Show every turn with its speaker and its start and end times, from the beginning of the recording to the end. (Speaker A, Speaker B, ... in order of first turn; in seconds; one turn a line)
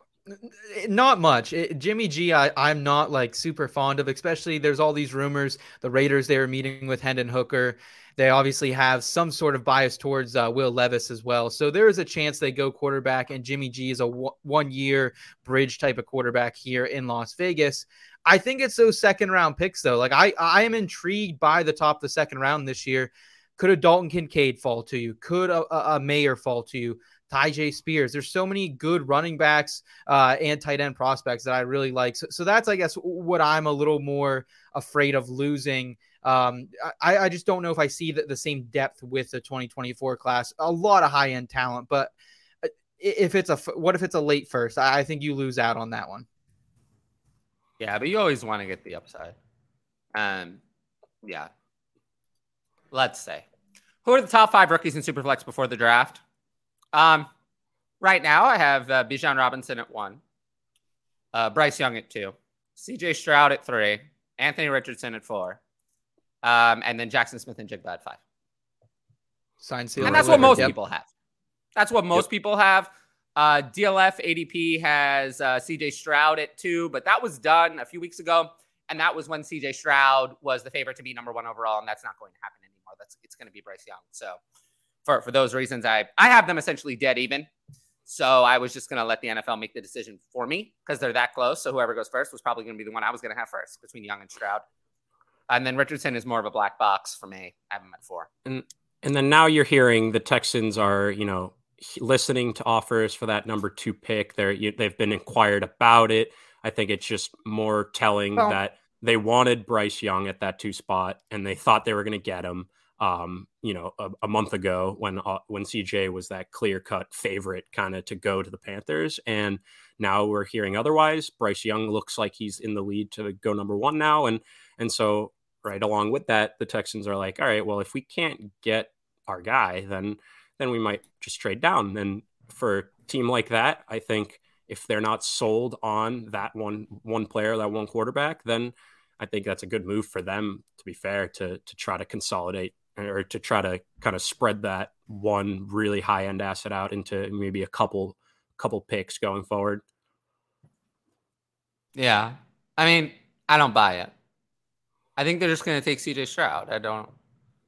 Speaker A: 0.3-42.1
Speaker A: 42.6-46.3
Speaker B: 47.8-49.3
Speaker B: 50.1-50.6
Speaker B: 51.2-51.5
Speaker B: 52.9-53.5
Speaker B: 54.0-56.2
Speaker B: 56.9-57.3
Speaker B: 58.0-60.2
Speaker B: 61.3-65.6
Speaker B: 66.4-68.2
Speaker A: 69.6-70.7
Speaker C: 70.0-70.7
Speaker B: 70.0-71.1
Speaker B: 71.8-84.4
Speaker B: 85.1-87.5
Speaker B: 88.1-94.6
Speaker B: 95.5-98.3
Speaker C: 98.5-149.8
Speaker B: 151.9-154.1
Speaker B: 155.2-157.1